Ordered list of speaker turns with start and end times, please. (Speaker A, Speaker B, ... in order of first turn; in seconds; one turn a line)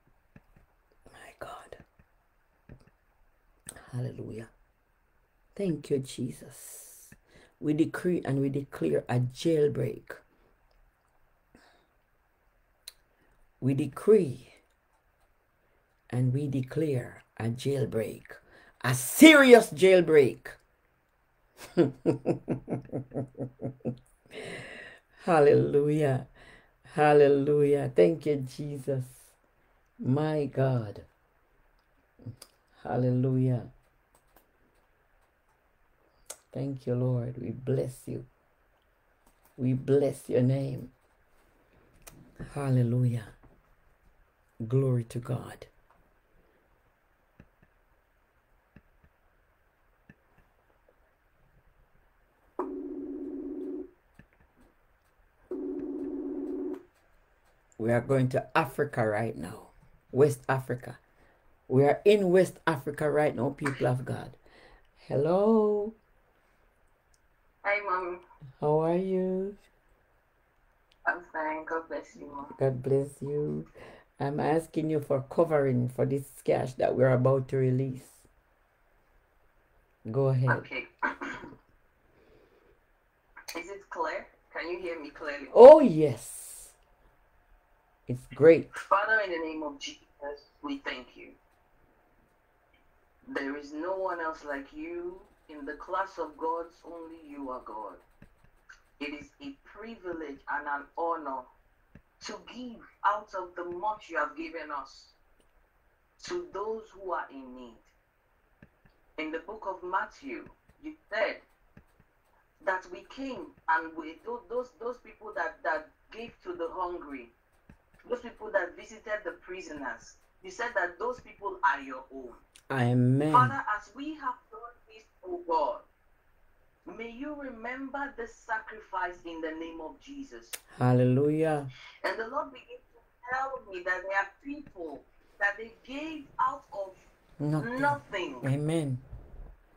Speaker A: 1.1-1.8
Speaker A: 3.9-4.5
Speaker A: 5.6-10.2
Speaker A: 13.6-14.6
Speaker A: 16.1-20.6
Speaker A: 21.8-23.4
Speaker A: 25.2-26.3
Speaker A: 26.9-29.3
Speaker A: 30.0-31.1
Speaker A: 32.8-33.7
Speaker A: 36.5-38.3
Speaker A: 39.6-40.9
Speaker A: 42.5-43.3
Speaker A: 44.6-45.7
Speaker A: 57.8-61.0
Speaker A: 61.7-64.4
Speaker A: 65.0-66.0
Speaker B: 67.6-68.2
Speaker A: 68.6-69.6
Speaker B: 71.0-72.5
Speaker A: 72.6-73.7
Speaker A: 74.2-78.2
Speaker A: 80.1-80.7
Speaker B: 80.5-81.5
Speaker B: 83.5-85.6
Speaker A: 85.5-86.7
Speaker A: 88.1-88.7
Speaker B: 88.7-91.4
Speaker B: 93.3-98.0
Speaker B: 99.0-101.5
Speaker B: 102.2-105.1
Speaker B: 106.2-107.9
Speaker B: 109.2-111.4
Speaker B: 112.6-117.3
Speaker B: 118.0-122.4
Speaker A: 122.7-123.6
Speaker B: 123.3-125.8
Speaker B: 126.9-130.6
Speaker A: 130.8-131.7
Speaker B: 132.0-137.0
Speaker A: 137.4-139.0
Speaker B: 137.6-138.5